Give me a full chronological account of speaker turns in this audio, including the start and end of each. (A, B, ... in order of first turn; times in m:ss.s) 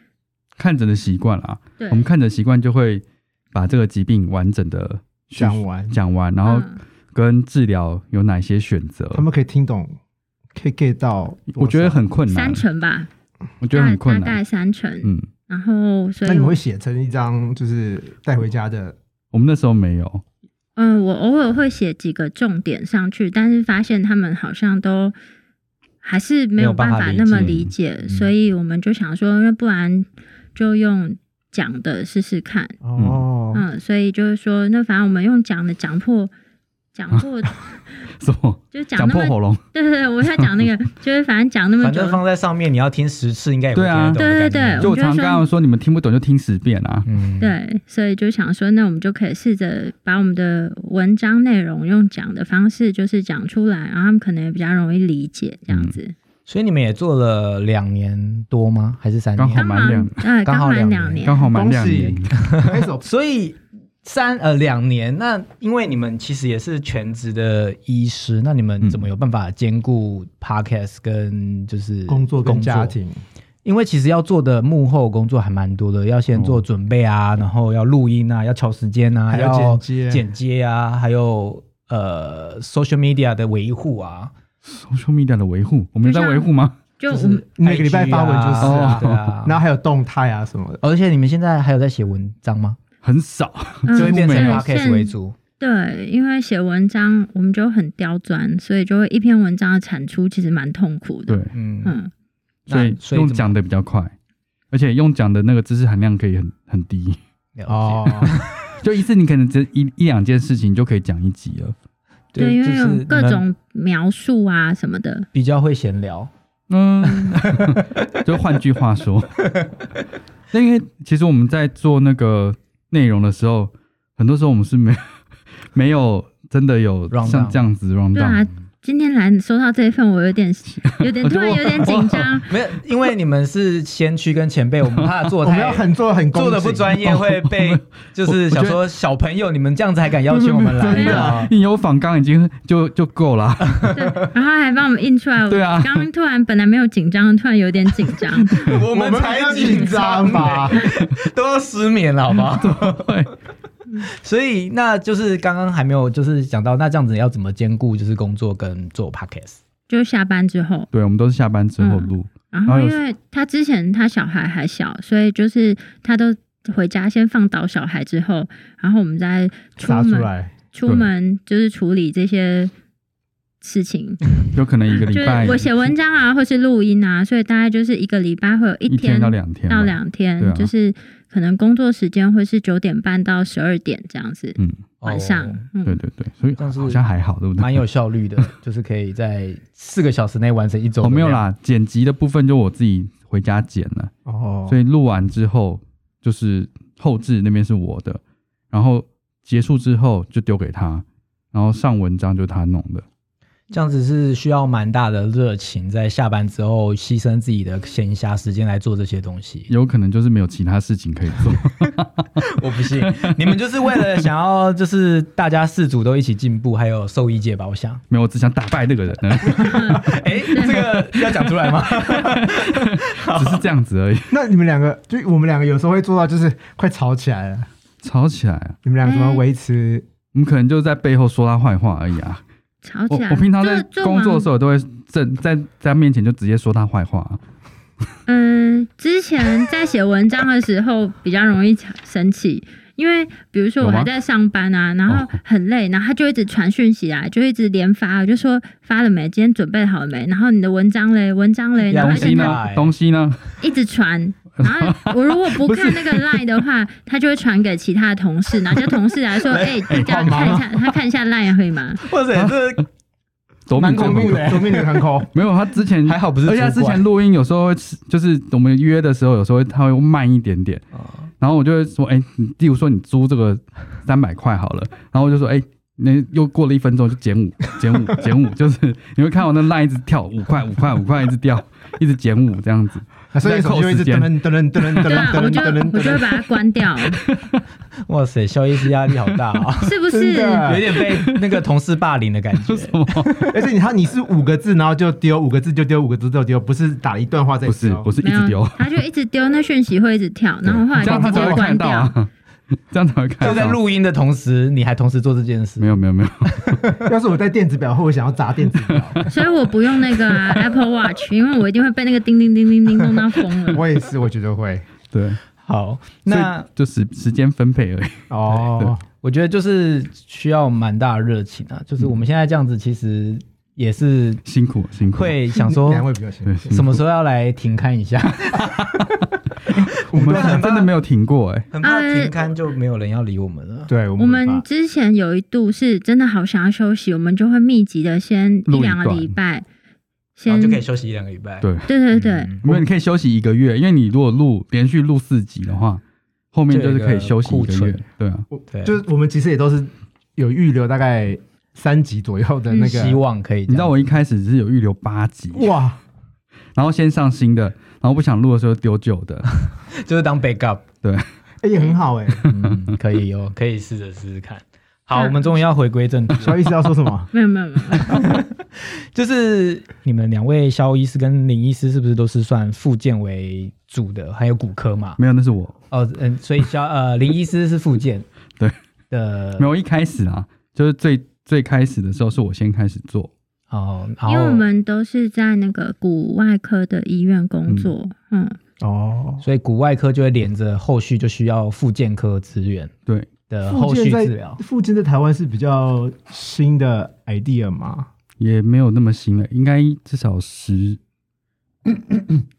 0:00.6-0:09.2 A
0:01.8-0:02.1 B
0:05.4-0:06.0 C
0:06.4-0:06.8 B
0:09.1-0:09.9 C
0:10.5-0:12.0 C
0:11.6-0:12.6 A
0:12.3-0:13.1 B
0:13.6-0:14.4 A
0:13.7-0:16.6 B
0:16.2-0:19.0 C
0:19.3-0:20.2 A
0:20.8-0:25.2 B
0:26.0-0:32.8 B
0:26.6-0:28.3 D
0:32.8-0:33.6 C
0:33.0-0:33.2 A
0:33.5-0:36.3 B
0:36.9-0:37.7 B
0:38.2-0:39.6 A
0:38.7-0:42.2 B
0:41.8-0:44.9 D
0:43.8-0:44.2 A
0:44.2-0:45.4 B
0:44.8-0:47.1 A
0:47.0-0:47.6 D
0:47.4-0:56.1 B
0:55.7-0:56.0 A
0:56.5-0:59.7 D
0:59.4-1:00.2 A
0:59.6-1:01.5 B
1:00.4-1:01.3 D
1:01.2-1:02.3 A
1:01.5-1:03.0 C
1:02.3-1:13.0 D
1:12.1-1:13.2 C
1:13.6-1:24.3 D
1:16.3-1:16.6 A
1:19.3-1:20.2 C
1:24.7-1:26.8 A
1:26.0-1:27.4 B
1:27.1-1:29.6 D
1:27.6-1:30.8 C
1:28.6-1:29.2 A
1:30.8-1:32.8 D
1:33.0-1:34.6 A
1:33.9-1:42.1 B
1:33.9-1:35.4 D
1:41.3-1:41.5 A
1:41.5-1:42.0 D
1:42.7-1:43.6 D
1:42.7-1:44.1 A
1:44.7-1:47.2 A
1:47.6-1:48.7 D
1:47.7-1:48.4 C
1:48.6-1:51.8 A
1:52.3-1:53.4 D
1:52.4-1:55.3 B
1:55.3-1:56.3 D
1:56.7-1:59.6 A
1:57.0-1:58.1 D
2:00.5-2:05.0 A
2:05.7-2:08.5 A
2:07.1-2:07.6 D
2:08.1-2:12.5 B
2:11.0-2:12.3 A
2:12.5-2:21.5 D
2:15.4-2:17.0 C
2:17.1-2:18.8 A
2:20.3-2:24.1 A
2:20.9-2:21.5 C
2:20.9-2:21.3 B
2:23.7-2:24.1 D
2:23.9-2:28.7 B
2:25.5-2:26.0 A
2:28.5-2:28.8 A
2:28.6-2:33.3 D
2:28.9-2:30.9 C
2:29.5-2:29.8 B
2:32.4-2:33.3 A
2:34.0-2:39.6 D
2:39.9-2:40.9 B
2:40.9-2:43.0 A
2:41.8-2:52.7 B
2:49.8-2:50.5 C
2:53.6-2:54.3 B
2:54.5-2:55.9 A
2:55.1-3:06.0 B
2:58.9-3:00.7 A
3:04.6-3:04.8 A
3:05.0-3:05.7 D
3:05.9-3:07.8 A
3:06.6-3:07.0 D
3:07.6-3:11.4 D
3:11.0-3:14.1 A
3:14.3-3:14.8 C
3:14.7-3:23.0 A
3:23.7-3:29.7 D
3:29.7-3:33.4 A
3:32.4-3:38.0 D
3:38.1-3:44.4 A
3:39.4-3:43.7 D
3:39.6-3:40.8 B
3:44.3-3:47.7 C
3:48.0-3:48.8 A
3:48.8-3:50.1 C
3:49.0-3:49.4 B
3:50.3-3:52.4 A
3:52.8-3:54.5 B
3:53.1-3:57.4 A
3:58.3-4:12.6 B
4:03.8-4:04.1 A
4:05.1-4:05.4 A
4:11.8-4:12.9 D
4:11.9-4:13.4 A
4:13.6-4:22.0 B
4:14.6-4:16.5 A
4:19.4-4:19.9 D
4:19.9-4:20.7 A
4:20.0-4:20.7 C
4:22.0-4:22.9 D
4:22.3-4:22.8 A
4:23.7-4:24.8 A
4:23.7-4:25.0 D
4:23.8-4:25.3 C
4:25.3-4:30.8 A
4:26.0-4:27.1 D
4:31.0-4:31.3 D
4:31.4-4:45.6 A
4:43.3-4:46.4 C
4:45.1-4:47.2 B
4:47.0-4:47.6 A
4:48.1-4:50.0 D
4:49.8-4:50.8 B
4:50.1-4:51.0 C
4:50.6-4:53.4 D
4:51.0-4:51.6 A
4:52.6-4:53.4 A
4:53.4-4:58.1 C
4:57.6-4:59.0 A
4:58.2-5:02.2 B
5:00.7-5:02.3 A
5:01.0-5:01.6 C
5:02.9-5:03.8 A
5:03.4-5:07.1 D
5:05.8-5:06.8 A
5:07.0-5:09.3 C
5:09.3-5:13.8 B
5:10.2-5:10.6 A
5:13.7-5:14.9 C
5:15.1-5:15.4 A
5:15.6-5:16.7 D
5:16.3-5:18.9 A
5:18.3-5:19.0 C
5:19.2-5:24.4 D
5:24.5-5:25.4 A
5:25.1-5:26.1 D
5:25.6-5:26.7 C
5:26.4-5:27.0 A
5:26.7-5:29.1 D
5:28.6-5:31.7 A
5:29.7-5:30.9 D
5:30.1-5:30.6 C
5:31.7-5:33.9 D
5:31.8-5:32.4 B
5:33.9-5:34.6 C
5:34.2-5:39.6 B
5:38.7-5:39.4 A
5:40.4-5:40.8 B
5:40.5-5:42.6 D
5:41.6-5:41.9 A
5:41.9-5:42.5 B
5:42.6-5:46.0 A
5:46.5-5:48.5 A
5:46.7-5:48.0 D
5:48.5-5:53.2 C
5:48.7-5:49.0 D
5:52.7-5:53.0 B
5:52.8-5:54.0 D
5:53.7-5:55.7 A
5:55.5-5:56.0 C
5:56.8-5:59.5 A
5:59.6-6:00.9 D
6:01.6-6:02.5 C
6:02.4-6:06.7 D
6:02.5-6:03.0 A
6:05.2-6:05.4 B
6:06.4-6:07.3 C
6:07.3-6:08.2 B
6:08.0-6:15.2 D
6:15.2-6:15.8 A
6:15.9-6:18.3 D
6:19.1-6:19.7 D
6:19.6-6:23.3 A
6:23.7-6:24.7 D
6:24.3-6:28.6 B
6:27.7-6:27.9 A
6:28.8-6:29.4 C
6:29.4-6:32.9 D
6:33.5-6:34.6 D
6:33.7-6:38.1 C
6:38.4-6:41.0 A
6:41.9-6:42.4 A